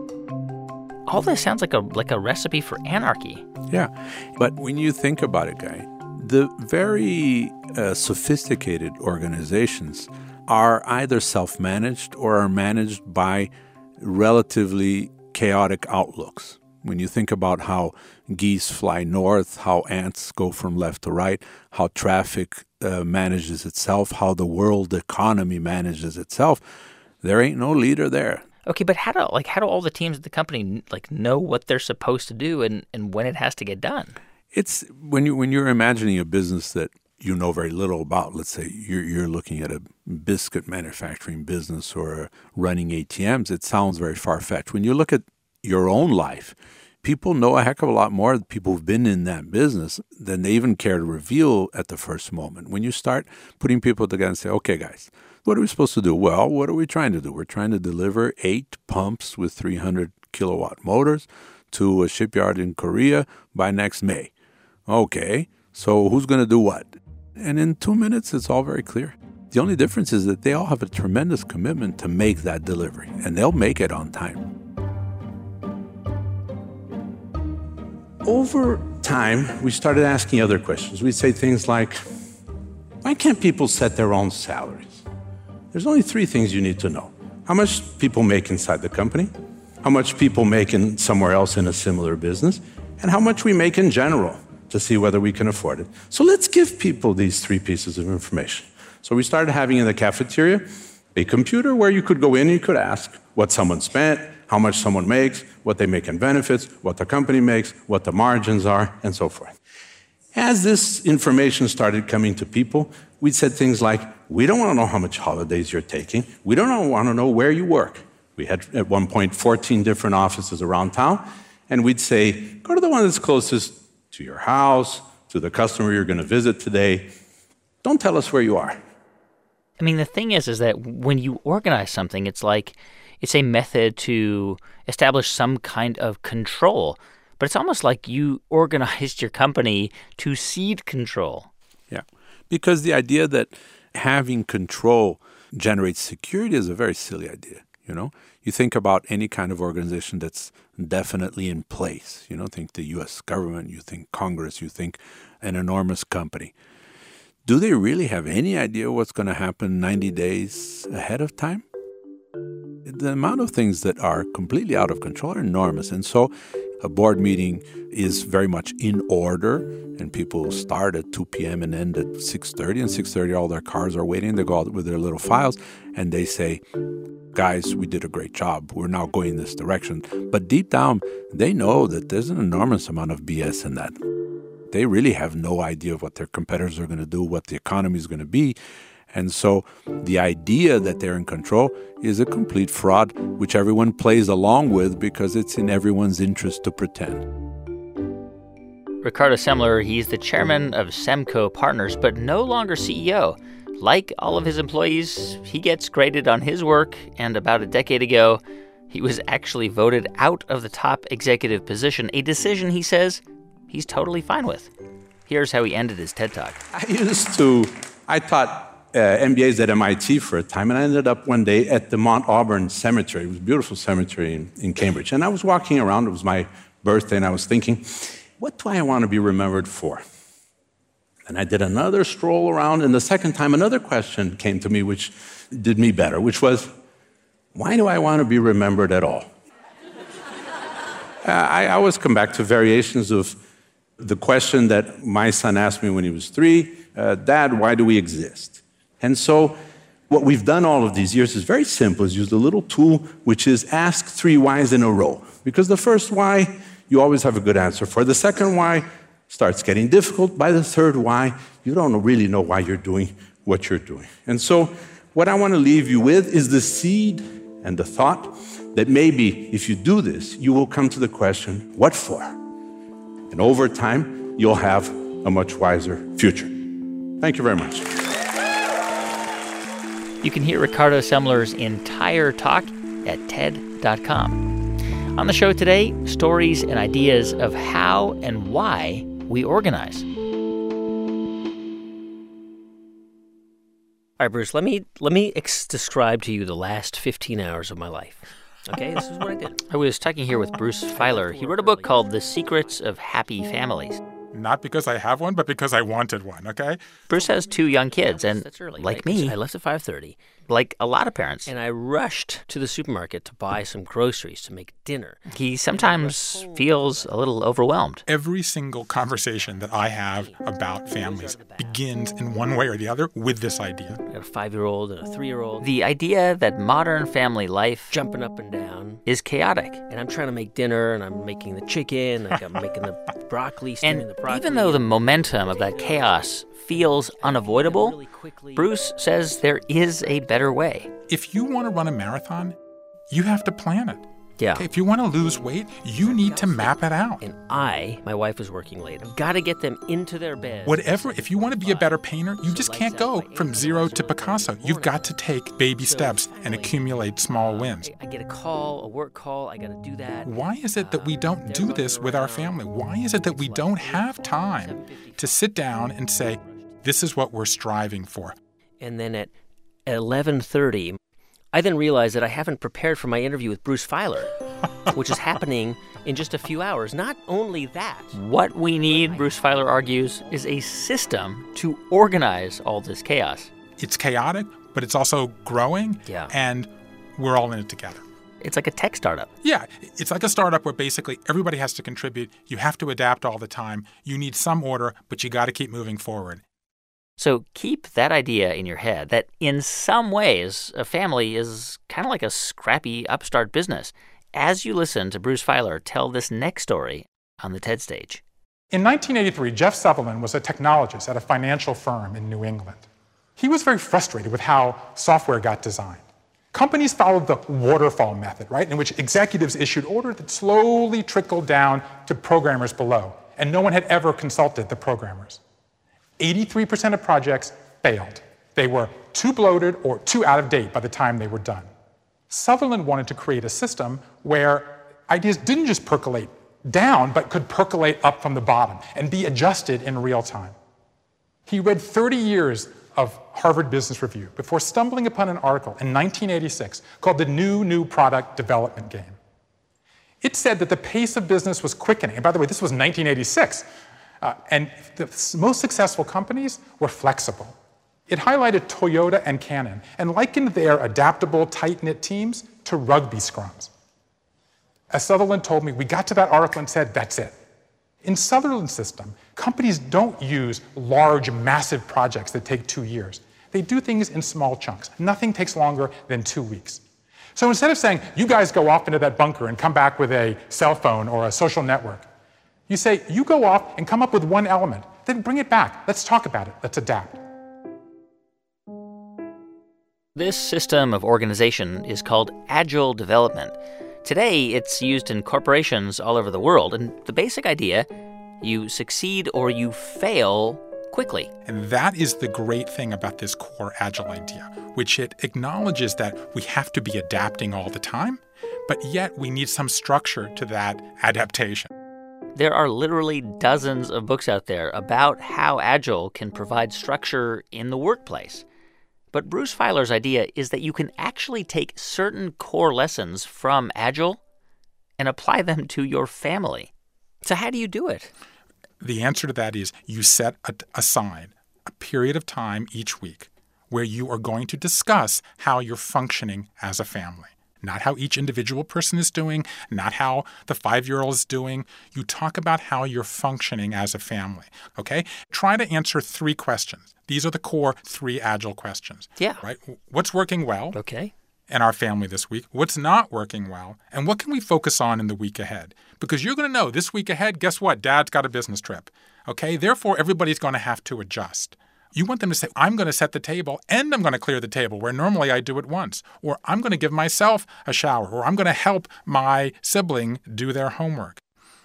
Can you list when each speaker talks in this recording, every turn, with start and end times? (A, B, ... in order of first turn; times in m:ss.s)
0:01.1-0:03.4 A
0:03.7-0:26.6 B
0:27.2-0:28.4 B
0:28.7-0:34.2 A
0:34.5-1:04.3 B
1:04.9-1:14.4 B
1:18.2-1:22.0 C
1:23.0-1:25.0 C
1:25.7-1:29.3 C
1:29.8-1:49.5 C
1:50.3-2:07.1 C
2:07.8-2:08.8 C
2:09.8-2:21.5 A
2:21.9-2:36.5 B
2:37.5-2:41.6 B
2:42.8-2:56.6 B
2:57.3-3:04.0 B
3:04.7-3:08.6 B
3:09.1-3:17.3 B
3:19.0-3:34.7 A
3:35.3-3:36.6 A
3:36.7-3:50.0 C
3:51.3-3:56.7 C
3:57.6-3:59.3 C
4:01.2-4:03.4 C
4:04.0-4:09.6 C
4:10.1-4:32.4 C
4:33.3-4:36.6 C
4:37.2-4:38.0 C
4:40.2-4:44.5 A
4:45.2-4:50.1 A
4:54.2-4:59.6 D
4:59.7-5:04.0 A
5:00.9-5:02.9 D
5:04.3-5:06.8 E
5:07.1-5:10.2 D
5:07.1-5:09.4 A
5:10.5-5:11.5 A
5:11.5-5:17.3 D
5:15.3-5:18.0 A
5:18.1-5:24.0 E
5:19.4-5:21.8 D
5:24.1-5:25.7 D
5:25.6-5:28.0 A
5:27.9-5:29.0 D
5:29.0-5:29.8 A
5:29.9-5:40.6 D
5:33.8-5:38.0 A
5:38.5-5:40.9 A
5:41.1-5:42.6 E
5:43.1-5:44.0 E
5:44.4-5:44.7 D
5:44.6-5:47.2 E
5:45.2-5:55.2 D
5:50.7-5:57.9 E
5:55.8-6:05.4 D
6:00.2-6:08.4 E
6:06.1-6:06.7 D
6:08.8-6:09.3 D
6:09.9-6:11.0 D
6:11.5-6:14.3 D
6:14.9-6:18.2 D
6:18.1-6:23.5 A
6:18.8-6:21.0 D
6:23.8-6:28.0 E
6:26.1-6:26.3 D
6:28.4-6:29.3 A
6:29.4-6:36.4 E
6:37.2-6:48.2 A
6:48.7-6:52.9 E
6:53.4-7:05.4 E
7:06.2-7:11.7 E
7:12.3-7:20.6 E
7:21.5-7:29.2 E
7:30.2-7:33.7 E
7:34.2-7:37.6 E
7:38.1-7:43.7 E
7:44.9-7:47.4 E
7:48.0-7:56.8 E
7:57.4-8:02.1 E
8:02.7-8:07.2 E
8:10.2-8:17.9 A
8:18.4-8:21.3 A
8:21.5-8:31.7 E
8:32.4-8:38.4 A
8:39.1-8:44.2 A
8:45.0-8:46.7 A
8:47.2-8:48.1 A
8:48.8-9:10.8 E
9:10.7-9:11.1 D
9:11.5-9:31.2 E